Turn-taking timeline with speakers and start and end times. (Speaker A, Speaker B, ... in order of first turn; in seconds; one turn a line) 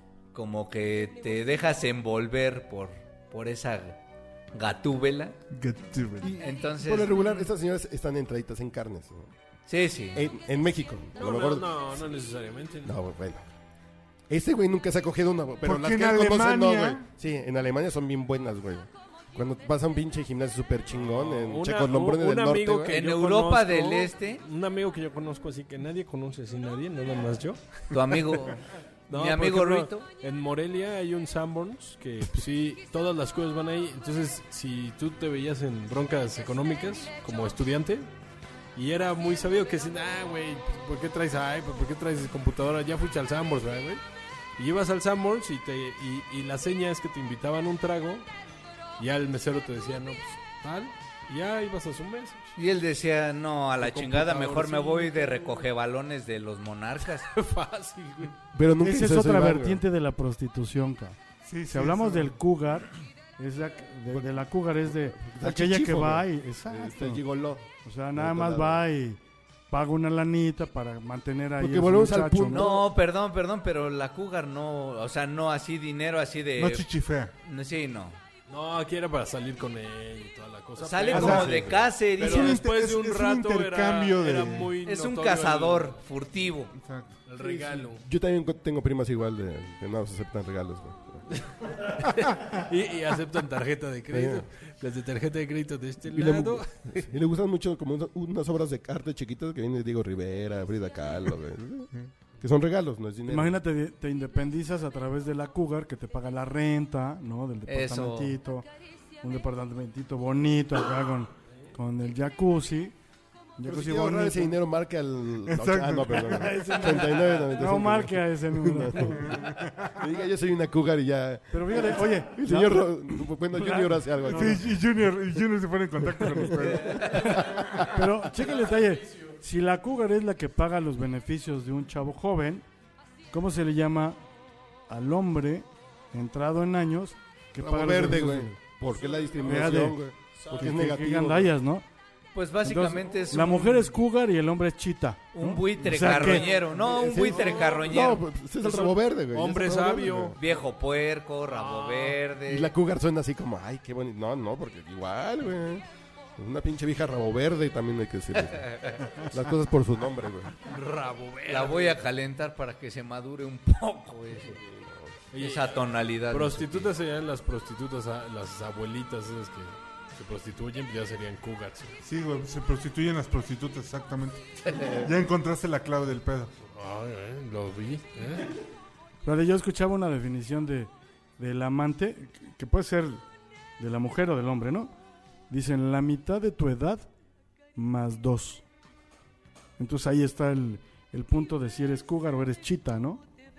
Speaker A: 0.3-4.0
Speaker A: 4.5-5.4
Speaker B: 5.5-6.3
Speaker C: 6.2-9.3
Speaker A: 6.4-7.5
Speaker A: 9.7-10.3
Speaker C: 10.1-11.8
Speaker D: 11.2-12.9
Speaker C: 12.8-13.4
Speaker C: 14.3-22.9
Speaker B: 15.6-17.0
Speaker D: 20.9-28.3
Speaker A: 22.9-24.4
Speaker A: 27.9-30.1
Speaker D: 29.1-38.1
Speaker D: 38.7-44.0
Speaker D: 44.6-48.3
Speaker D: 49.0-52.5
Speaker A: 52.6-57.3
Speaker D: 53.8-55.6
Speaker D: 57.2-58.4
Speaker C: 58.5-59.8
Speaker E: 58.8-67.2
Speaker B: 61.4-62.4
Speaker C: 64.9-68.8
Speaker E: 67.8-69.2
Speaker E: 69.7-72.7
Speaker C: 71.6-72.9
Speaker A: 72.5-76.9
Speaker B: 76.6-77.3
Speaker A: 77.4-78.2
Speaker D: 78.5-85.9
Speaker A: 80.8-82.6
Speaker B: 81.1-81.5
Speaker C: 81.1-81.8
Speaker B: 82.2-84.7
Speaker A: 84.8-86.7
Speaker B: 86.8-87.2
Speaker D: 87.2-88.0
Speaker C: 87.4-91.2
Speaker D: 91.8-97.1
Speaker C: 94.1-94.5
Speaker C: 96.1-103.6
Speaker E: 103.3-108.7
Speaker A: 107.7-108.4
Speaker E: 109.2-112.9
Speaker E: 113.6-114.6
Speaker C: 113.7-124.7
Speaker B: 115.5-116.5
Speaker E: 116.1-119.3
Speaker B: 119.2-119.9
Speaker E: 121.5-124.6
Speaker B: 124.3-127.9
Speaker C: 126.3-127.8
Speaker E: 127.8-132.6
Speaker E: 133.3-134.2
Speaker E: 134.9-138.6
Speaker C: 137.6-141.5
Speaker D: 138.9-139.5
Speaker E: 139.4-140.0
Speaker D: 140.4-140.7
Speaker E: 140.6-141.8
Speaker A: 142.3-143.9
Speaker E: 142.6-146.4
Speaker A: 145.3-148.2
Speaker D: 146.4-147.8
Speaker C: 146.8-150.4
Speaker D: 148.6-150.6
Speaker A: 150.4-152.7
Speaker D: 151.5-152.2
Speaker C: 152.5-155.8
Speaker C: 156.4-160.5
Speaker A: 158.6-159.0
Speaker D: 160.6-162.1
Speaker A: 161.5-164.6
Speaker C: 164.4-165.2
Speaker D: 165.3-172.0
Speaker A: 165.3-166.9
Speaker B: 172.0-176.5
Speaker D: 176.7-178.6
Speaker E: 179.2-183.2
Speaker E: 183.8-184.9
Speaker E: 185.5-187.1
Speaker E: 187.7-188.6
Speaker E: 189.8-193.2